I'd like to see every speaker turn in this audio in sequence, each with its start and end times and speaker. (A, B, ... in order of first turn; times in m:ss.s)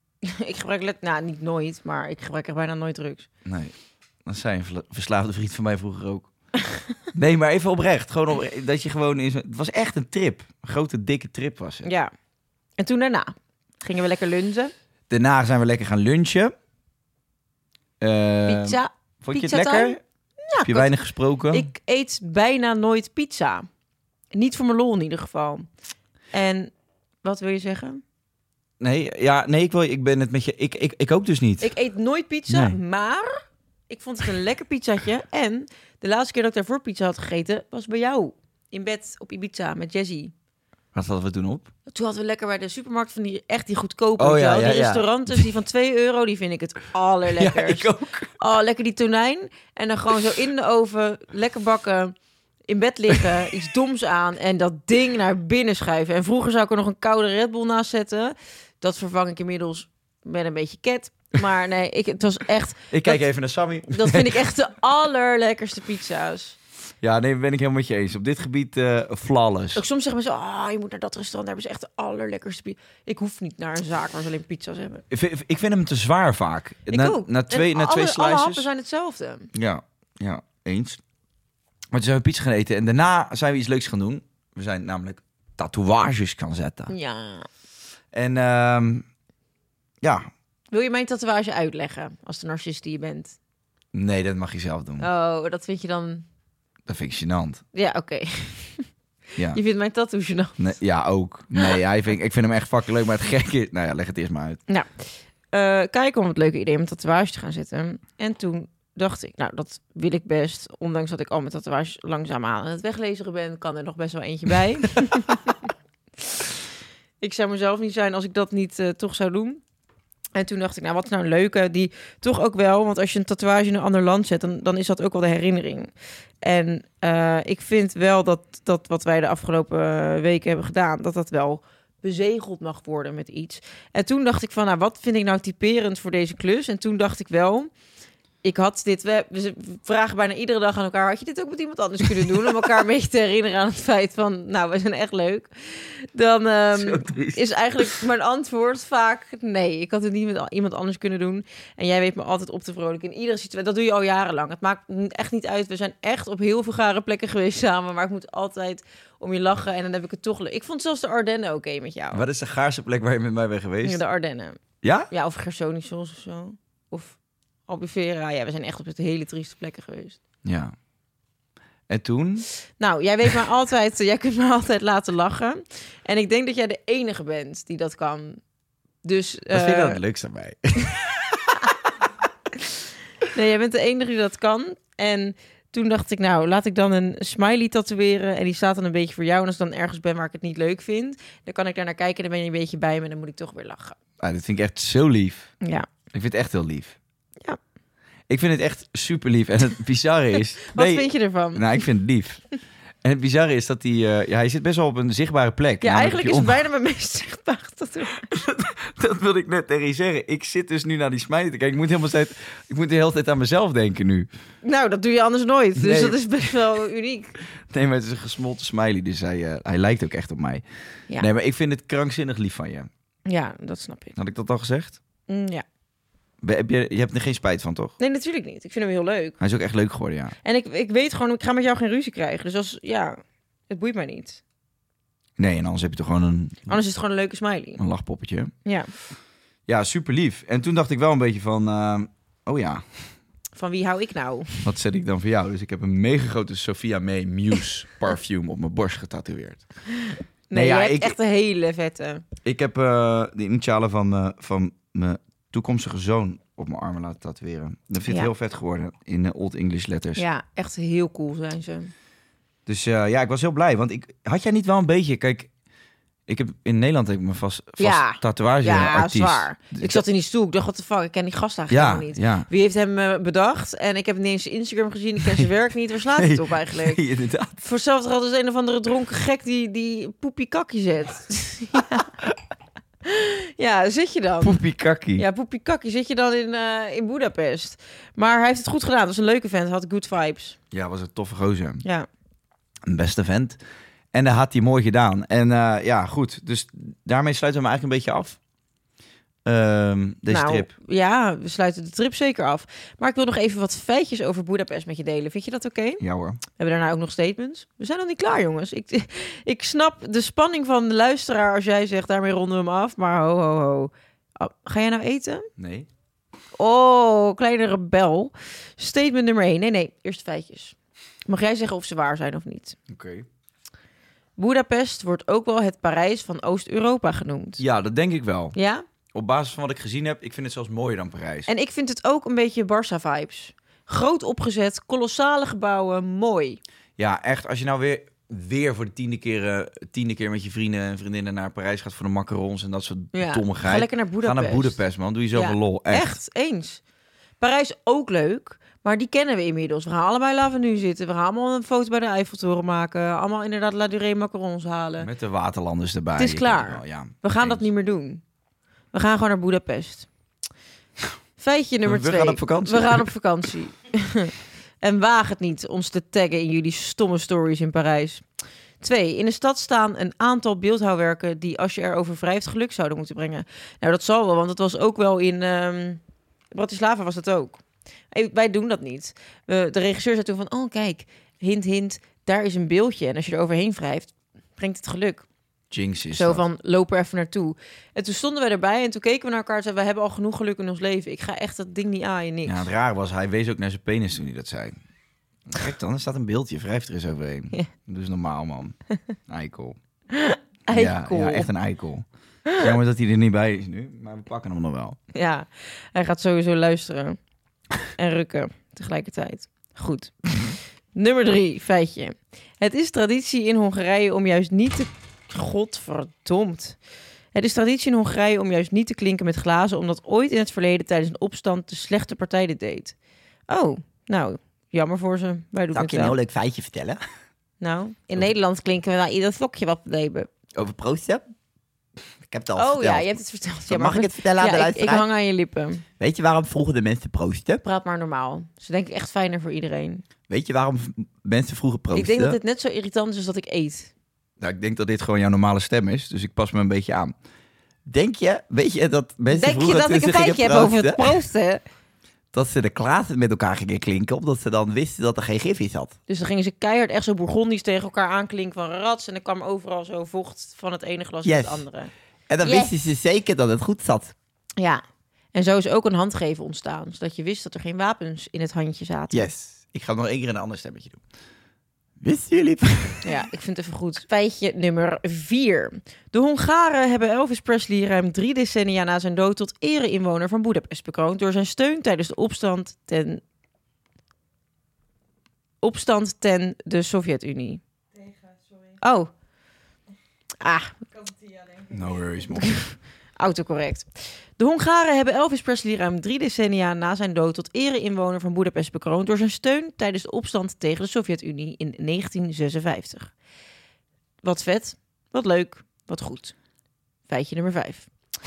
0:00.2-0:03.3 A
0:03.4-0:03.7 B
0:04.2-0:06.3 B
0:07.1-0:11.9 B
0:11.8-0:12.1 A
0:12.8-0:14.7 A
0:15.1-0:16.5 B
0:18.0-0:20.0 B
0:18.4-0:20.9 A
0:20.6-0:21.7 B
0:21.5-0:23.7 A
0:24.3-0:25.7 A
0:26.3-0:28.0 A
0:28.8-0:31.7 B
0:31.6-0:40.3 A
0:32.5-0:32.8 B
0:40.9-0:41.7 B
0:41.9-0:52.1 A
0:44.2-0:45.4 B
0:47.3-0:48.3 B
0:52.7-1:03.2 A
1:02.9-1:04.4 B
1:03.9-1:06.6 A
1:07.0-1:09.8 B
1:09.7-1:15.0 A
1:15.1-1:18.6 B
1:16.9-1:19.5 A
1:19.5-1:21.0 B
1:21.9-1:26.9 B
1:26.9-1:27.5 A
1:28.1-1:29.0 B
1:30.0-1:30.3 B
1:30.7-1:33.4 A
1:33.9-1:35.1 B
1:35.0-1:36.2 A
1:36.8-1:37.6 B
1:37.7-1:38.9 A
1:39.4-1:40.6 A
1:40.6-1:44.6 B
1:44.7-1:55.6 A
1:57.2-1:59.6 A
2:00.3-2:05.9 A
2:06.4-2:17.7 A
2:18.4-2:42.2 A
2:26.7-2:27.8 B
2:42.1-2:44.0 B
2:43.8-2:50.2 A
2:44.8-2:45.1 B
2:50.4-2:50.7 B
2:51.9-2:52.5 B
2:52.8-2:58.4 A
2:59.0-3:00.0 A
2:59.5-3:01.5 B
3:03.3-3:14.0 A
3:14.2-3:15.5 B
3:15.6-3:15.9 A
3:16.1-3:17.0 B
3:18.3-3:22.4 B
3:20.7-3:21.6 A
3:23.0-3:26.6 B
3:25.8-3:28.3 A
3:28.3-3:34.3 B
3:34.6-3:37.3 A
3:35.8-3:36.2 B
3:37.7-3:40.6 B
3:41.2-3:42.9 B
3:43.3-3:44.1 A
3:44.2-3:45.0 B
3:45.3-3:45.6 A
3:46.4-3:47.9 B
3:48.0-3:49.4 A
3:49.4-3:50.4 B
3:50.4-3:54.4 A
3:55.4-3:56.8 B
3:56.7-3:57.8 A
3:57.8-3:58.5 B
3:58.6-3:58.9 A
3:59.7-4:03.1 B
4:03.5-4:04.6 A
4:04.6-4:09.6 B
4:10.5-4:12.2 A
4:10.5-4:11.2 B
4:12.4-4:20.2 B
4:20.2-4:21.9 A
4:22.6-4:25.5 B
4:26.3-4:30.0 B
4:27.8-4:37.0 A
4:31.7-4:32.5 B
4:36.2-4:37.6 B
4:37.6-4:42.1 A
4:43.0-4:44.6 A
4:44.4-4:45.2 B
4:45.2-4:50.6 A
4:50.7-4:51.8 B
4:52.8-4:53.6 B
4:54.1-4:58.4 B
4:59.4-5:00.7 B
5:00.3-5:06.0 A
5:06.0-5:06.4 B
5:06.6-5:15.5 A
5:15.6-5:15.9 B
5:16.6-5:20.8 A
5:21.3-5:22.8 A
5:22.9-5:23.3 B
5:24.4-5:27.6 A
5:27.6-5:28.6 B
5:28.5-5:28.8 A
5:29.1-5:31.5 B
5:31.5-5:36.6 A
5:37.0-5:46.1 B
5:43.1-5:44.8 A
5:45.3-5:46.8 A
5:47.4-5:55.1 A
5:55.0-5:57.6 B
5:56.2-5:58.2 A
5:58.9-6:00.1 A
6:01.4-6:08.2 A
6:01.8-6:03.1 B
6:08.8-6:16.0 A
6:16.5-6:25.2 A
6:25.7-6:26.4 B
6:26.1-6:32.7 A
6:32.4-6:34.8 B
6:35.5-6:38.8 B
6:39.3-6:39.8 B
6:40.1-6:41.5 A
6:40.7-6:45.0 B
6:45.1-6:47.2 A
6:48.0-6:50.4 A
6:50.9-6:56.8 A
6:57.3-7:02.9 A
7:03.5-7:06.2 A
7:05.7-7:07.0 B
7:07.6-7:10.3 A
7:10.5-7:11.2 B
7:12.2-7:13.1 B
7:12.6-7:15.8 A
7:13.7-7:15.0 B
7:16.0-7:17.6 B
7:17.6-7:20.0 A
7:20.3-7:22.4 B
7:21.9-7:23.9 A
7:24.4-7:27.1 B
7:27.8-7:31.2 B
7:29.3-7:31.6 A
7:32.3-7:36.0 B
7:36.1-7:41.9 A
7:41.2-7:41.6 B
7:42.3-7:44.1 B
7:42.4-7:42.7 A
7:45.3-7:49.3 A
7:49.1-7:51.0 B
7:52.0-7:53.0 B
7:53.0-8:03.2 A
8:05.6-8:07.6 A
8:07.9-8:08.8 C
8:08.8-8:09.1 A
8:10.4-8:10.7 A
8:10.9-8:12.4 C
8:11.7-8:12.6 B
8:12.4-8:23.1 A
8:24.2-8:26.3 A
8:27.1-8:27.9 A